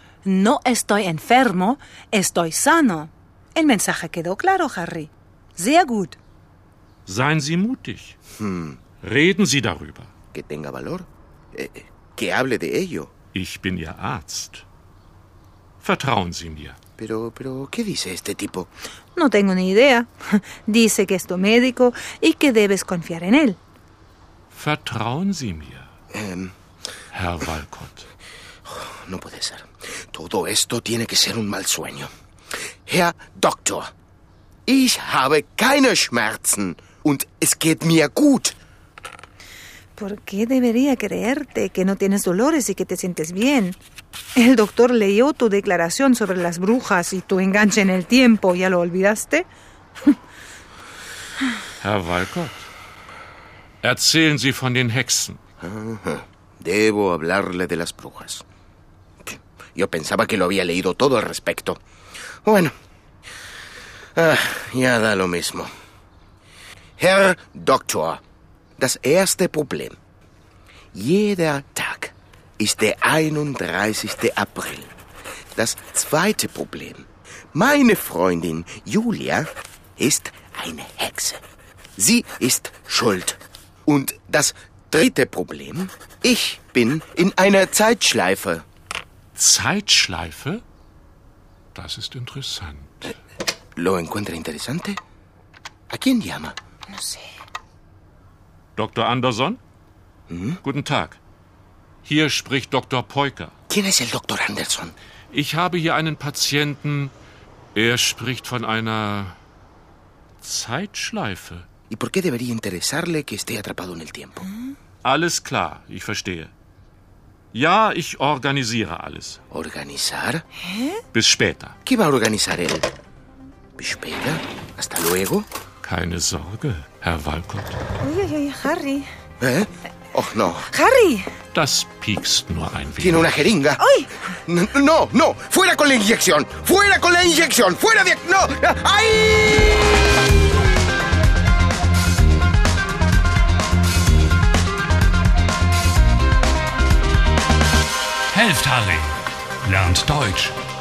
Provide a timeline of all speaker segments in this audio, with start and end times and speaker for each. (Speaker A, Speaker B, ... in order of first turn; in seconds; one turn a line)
Speaker A: 0.2-6.2
Speaker B: 7.1-8.2
Speaker C: 8.4-8.8
Speaker B: 9.0-10.1
Speaker C: 10.3-13.1
Speaker B: 13.3-14.7
Speaker B: 15.8-16.8
Speaker C: 17.0-18.7
Speaker A: 19.1-23.6
Speaker B: 24.5-25.9
Speaker C: 26.1-26.5
Speaker B: 27.1-28.1
Speaker C: 28.7-32.1
Speaker C: 32.9-33.9
Speaker C: 34.7-38.5
Speaker A: 40.0-43.8
Speaker A: 44.4-49.5
Speaker B: 51.8-52.7
Speaker B: 53.8-55.4
Speaker C: 55.6-58.5
Speaker C: 59.2-61.8
Speaker C: 62.5-62.7
Speaker C: 64.2-65.7
Speaker C: 67.0-68.2
Speaker C: 68.8-70.0
Speaker C: 70.9-74.9
Speaker C: 75.6-81.4
Speaker C: 82.0-88.7
Speaker B: 89.3-90.6
Speaker B: 91.7-93.1
Speaker C: 93.8-95.0
Speaker C: 95.9-96.5
Speaker B: 98.8-99.6
Speaker C: 100.3-100.6
Speaker B: 100.6-101.2
Speaker B: 102.0-103.5
Speaker C: 103.7-105.0
Speaker B: 105.3-107.1
Speaker B: 107.8-109.4
Speaker B: 110.4-111.7
Speaker C: 111.9-114.5
Speaker B: 115.0-116.5
Speaker B: 117.5-119.4
Speaker C: 119.5-120.4
Speaker A: 120.6-121.0
Speaker B: 121.1-121.8
Speaker C: 121.9-122.9
Speaker C: 123.8-125.5
Speaker B: 125.8-127.8
Speaker A: 128.0-129.1
Speaker C: 129.4-130.7
Speaker A: 130.7-131.3
Speaker B: 131.5-133.3
Speaker C: 133.0-133.8
Speaker A: 133.8-134.1
Speaker C: 134.5-139.9
Speaker D: 148.3-150.6